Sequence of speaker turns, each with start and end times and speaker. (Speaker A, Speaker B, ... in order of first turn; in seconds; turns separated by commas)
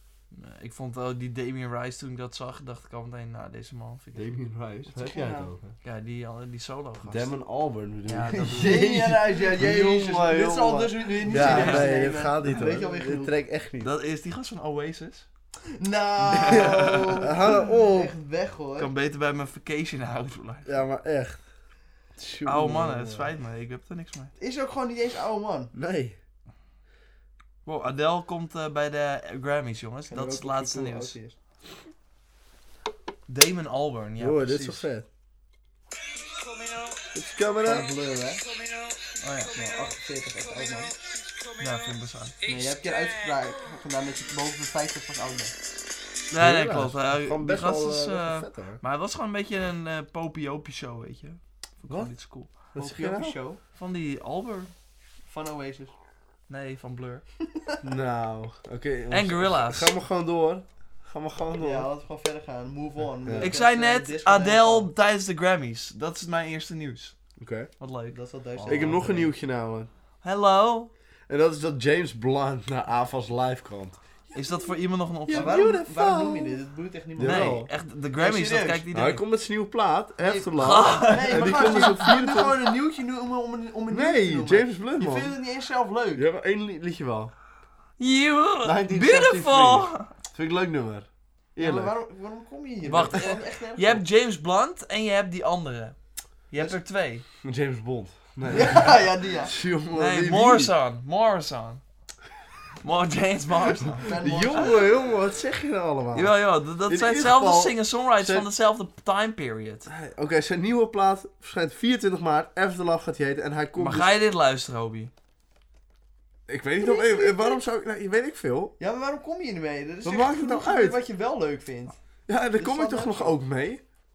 Speaker A: 0.3-4.4, Speaker B: 4.2-5.8, Speaker C: 4.9-5.5, Speaker A: 5.8-7.3, Speaker B: 7.1-13.9, Speaker A: 8.1-8.9, Speaker C: 8.4-13.3, Speaker A: 11.2-12.7, Speaker A: 13.8-15.3, Speaker C: 15.8-18.9, Speaker A: 16.3-17.2, Speaker B: 16.4-16.7, Speaker B: 17.2-18.1, Speaker A: 18.8-20.7, Speaker B: 20.6-21.4, Speaker B: 22.2-23.3, Speaker A: 22.4-24.3, Speaker C: 24.4-25.7, Speaker B: 25.7-26.2, Speaker A: 27.7-31.2, Speaker C: 30.1-31.4, Speaker A: 33.3-34.9, Speaker B: 34.2-35.1, Speaker B: 37.1-37.9, Speaker C: 37.6-38.5, Speaker A: 39.2-39.6, Speaker C: 39.5-41.0, Speaker A: 41.6-42.4, Speaker C: 42.4-45.5, Speaker A: 46.3-52.5, Speaker B: 46.4-48.8, Speaker B: 52.8-53.4, Speaker C: 52.8-53.6, Speaker A: 53.7-54.7, Speaker C: 55.3-56.0, Speaker A: 56.5-57.2, Speaker B: 57.8-61.9, Speaker A: 59.1-59.9, Speaker C: 61.6-64.9, Speaker B: 63.2-63.6, Speaker A: 63.4-67.2, Speaker B: 67.4-67.7, Speaker A: 67.8-69.1, Speaker C: 68.1-69.3, Speaker B: 68.7-69.9, Speaker A: 70.2-70.9, Speaker B: 71.3-74.0, Speaker A: 74.3-75.6, Speaker B: 75.3-76.6, Speaker C: 75.3-78.8, Speaker B: 77.2-77.7, Speaker A: 77.2-79.2, Speaker B: 78.9-82.6, Speaker C: 80.2-86.3, Speaker A: 80.6-82.0, Speaker B: 83.9-85.3, Speaker B: 86.2-87.3, Speaker A: 88.0-90.1, Speaker B: 88.6-91.9, Speaker C: 91.6-94.0, Speaker A: 92.9-96.0, Speaker A: 96.5-97.2, Speaker B: 97.4-100.7, Speaker C: 98.5-99.5, Speaker A: 99.9-101.8, Speaker A: 102.8-104.7, Speaker C: 104.0-104.8, Speaker B: 104.2-106.3, Speaker A: 106.1-109.9, Speaker B: 106.9-108.5, Speaker B: 109.9-114.1, Speaker A: 113.8-115.1, Speaker B: 116.5-118.7, Speaker C: 116.8-117.6, Speaker C: 118.8-122.0, Speaker B: 120.0-121.0, Speaker B: 122.3-123.8, Speaker C: 122.6-123.4